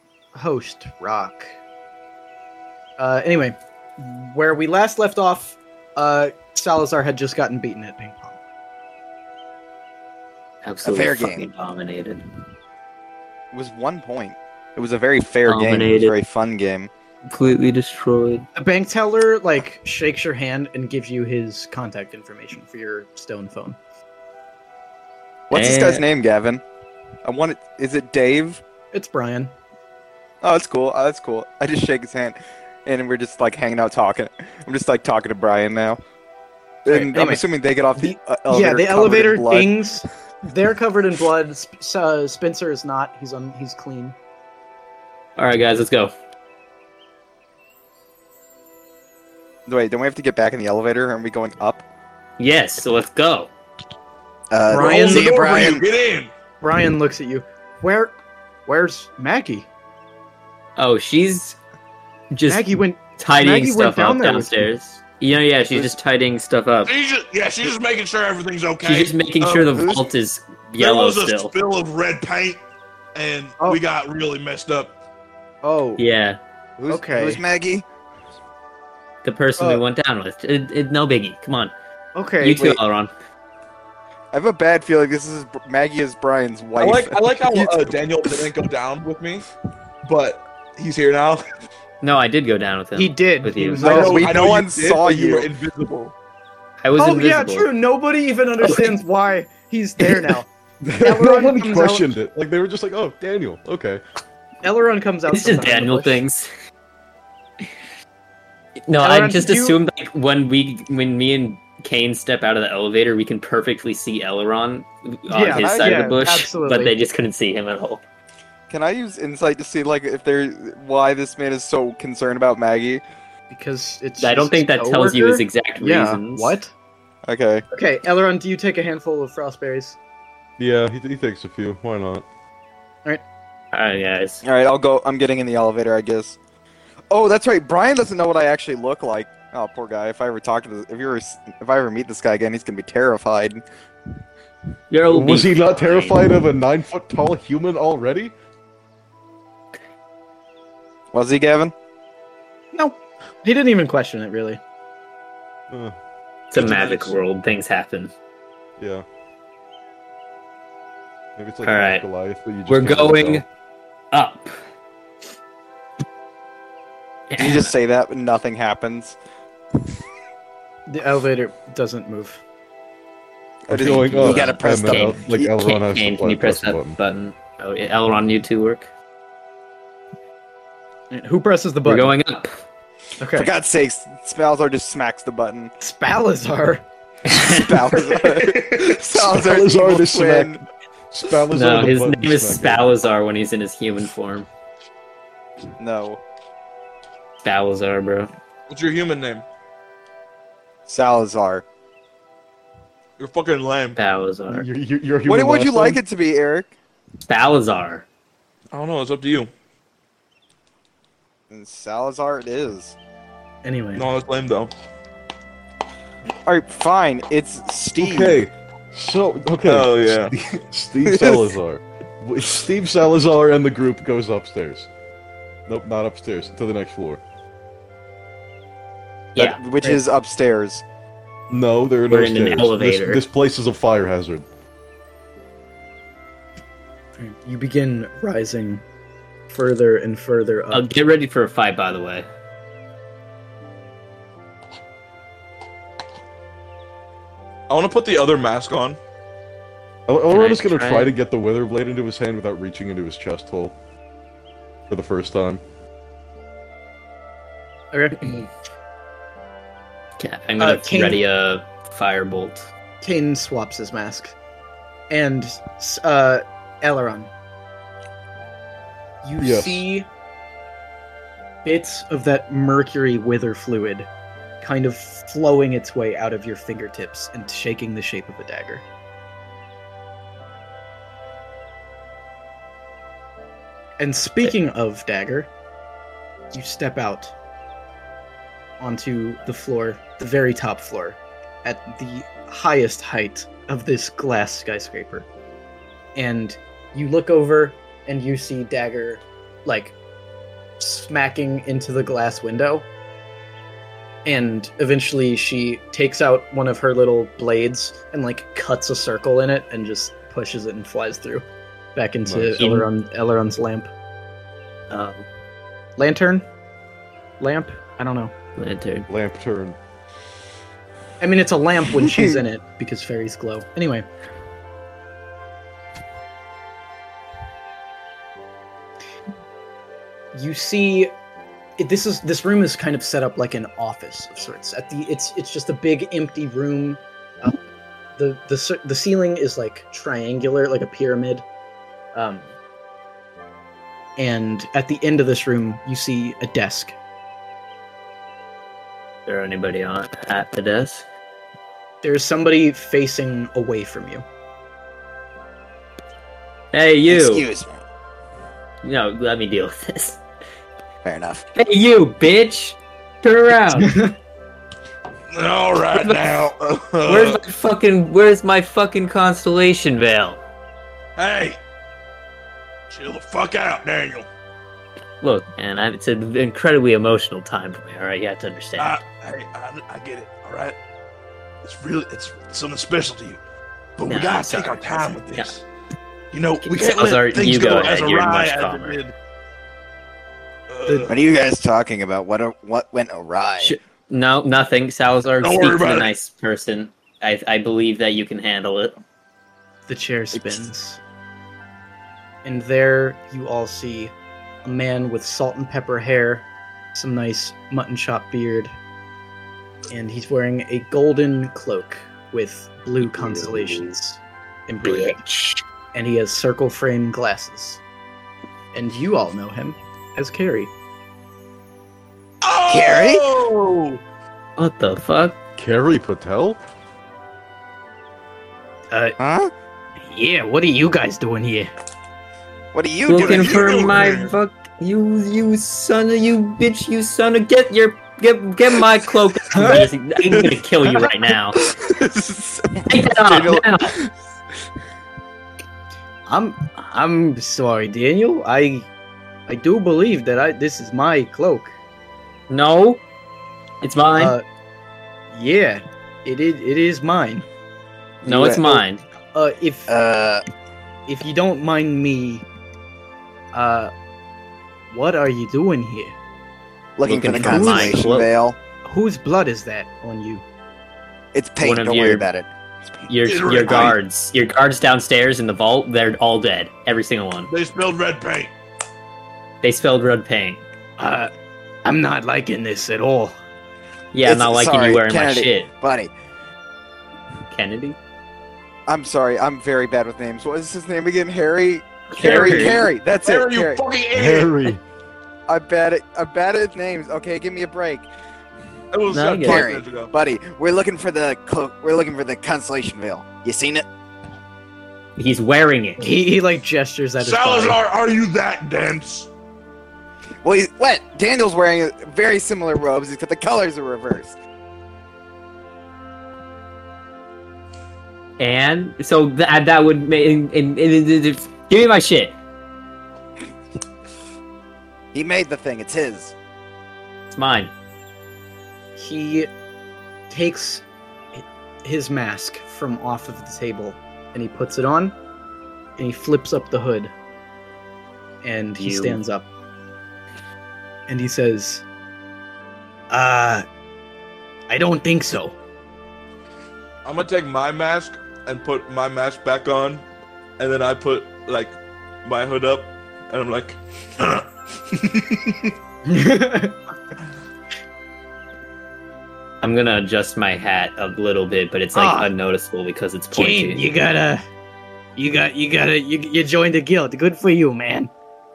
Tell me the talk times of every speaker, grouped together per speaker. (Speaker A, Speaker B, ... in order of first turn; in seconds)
Speaker A: 0.3-1.5, 3.0-8.4, 18.6-23.8, 28.9-29.5, 36.9-37.4, 38.0-44.2, 54.7-55.3, 56.6-59.7, 62.5-64.5, 75.6-76.0, 76.9-77.4, 82.2-82.8, 93.0-94.4, 97.0-100.5, 101.0-102.1, 104.6-106.2, 109.0-109.8, 115.3-116.9, 123.5-126.7, 127.7-130.0, 152.7-154.6, 170.9-172.4, 181.1-182.1, 183.2-183.5, 185.8-186.8, 213.6-214.0, 237.2-238.8, 239.5-240.9, 257.9-258.4, 260.6-261.2, 263.0-264.4, 265.1-267.3, 269.2-270.1, 271.6-274.1, 274.6-278.8, 284.0-285.5, 286.5-287.3, 288.8-295.3, 296.1-300.0, 300.8-302.9, 304.2-313.9, 316.0-316.5, 317.4-318.3, 321.2-324.1, 330.3-331.1, 331.8-337.6, 338.2-341.4, 342.1-342.5, 344.2-347.0, 352.0-354.2, 363.8-364.1, 399.9-401.0, 402.4-404.1, 404.6-408.7, 409.9-415.2, 415.9-417.8, 418.7-420.7, 428.9-429.2, 430.0-431.7, 439.5-439.9, 446.3-448.9, 449.5-451.7, 454.1-454.4, 455.3-457.5, 458.2-459.9, 461.1-462.4, 463.5-463.9, 464.9-466.1, 467.4-468.0, 468.9-470.4, 481.0-481.3, 481.8-483.4, 506.0-507.8, 529.0-529.5, 530.3-535.2, 536.0-537.1, 538.4-539.5, 541.1-541.8, 543.1-543.6, 544.7-545.6, 556.1-556.8, 561.9-562.3, 563.3-564.4, 565.2-568.1
Speaker B: 10.6-12.3, 15.5-16.2, 17.3-18.5, 25.5-26.0, 45.4-46.1, 52.4-53.5, 60.8-61.6, 62.3-62.6, 63.2-66.9, 68.8-71.5, 76.0-76.4, 79.2-81.7, 82.4-83.1, 92.0-93.8, 96.8-97.7, 98.6-98.9, 105.3-106.5, 108.9-118.0, 124.2-126.5, 133.7-134.4, 144.9-146.4, 156.5-158.1, 161.6-162.1, 162.7-163.4, 164.1-164.5, 167.3-167.7, 173.8-178.9, 181.8-182.6, 187.3-187.7, 191.5-194.5, 197.4-198.3, 204.0-204.7, 207.3-208.1, 229.3-229.6, 232.1-233.2, 240.7-242.3, 250.3-251.1, 260.2-262.7, 312.6-312.9, 314.9-315.2, 318.6-319.1, 349.3-351.1, 356.7-357.5, 358.8-360.2, 361.6-364.0, 365.9-366.3, 367.1-370.4, 375.2-379.0, 384.1-385.5, 386.6-389.0, 393.6-399.0, 413.2-413.8, 414.8-415.6, 424.6-425.4, 433.1-441.6, 442.9-444.0, 452.5-453.0, 453.8-454.4, 458.2-459.0, 467.1-468.3, 471.6-472.3, 473.1-477.5, 479.6-480.6, 484.1-485.7, 487.5-488.0, 492.1-492.9, 499.1-499.7, 505.2-506.1, 518.4-522.4, 527.3-527.7, 538.8-539.2, 559.6-563.8
Speaker C: 10.8-11.5, 13.5-16.9, 25.5-26.6, 27.2-28.6, 30.4-36.0, 36.9-39.7, 49.7-51.8, 54.5-55.8, 69.7-70.1, 76.8-77.8, 84.3-88.0, 93.8-95.5, 115.5-116.1, 118.7-123.0, 127.3-127.6, 134.4-136.4, 137.1-143.6, 151.1-151.7, 167.4-169.2, 173.7-175.6, 183.3-185.7, 187.3-190.6, 195.8-196.2, 200.9-201.6, 205.3-206.7, 211.5-212.9, 216.4-218.4, 221.1-221.6, 229.4-230.8, 322.0-322.4, 357.1-357.8, 361.0-361.4, 391.1-393.8, 400.3-400.6, 422.7-423.2, 429.2-429.5, 432.7-433.8, 440.3-440.6, 441.6-444.1, 459.9-460.4, 467.0-468.6, 471.3-473.1, 484.2-486.1, 488.9-493.8, 495.5-498.1, 499.4-503.9, 510.4-514.4, 525.1-526.4
Speaker D: 54.8-56.3, 66.9-69.9, 70.8-72.6, 73.2-75.0, 86.8-89.5, 90.0-91.4, 93.8-96.1, 156.6-157.2, 198.7-199.4, 203.2-204.0, 208.7-209.5, 213.9-214.7, 219.7-220.3, 247.7-249.0, 365.3-367.4, 371.2-371.6, 372.9-374.3, 378.8-380.8, 381.6-383.4, 384.0-385.6, 386.3-389.1, 390.7-391.1, 395.4-396.1, 422.4-424.0, 433.2-434.3, 473.2-474.0, 477.5-478.5, 492.2-494.8, 498.9-500.1, 507.2-509.3, 547.0-550.0, 550.6-555.6
Speaker E: 100.8-104.0, 130.6-132.3, 145.1-148.3, 158.8-159.0, 161.4-163.4, 173.7-177.0, 188.5-192.9, 204.5-206.0, 218.0-224.9, 225.7-227.2, 231.5-234.4, 250.1-253.8, 254.9-255.6, 269.4-269.8, 312.3-312.6, 319.1-319.8, 425.6-426.6, 494.1-494.8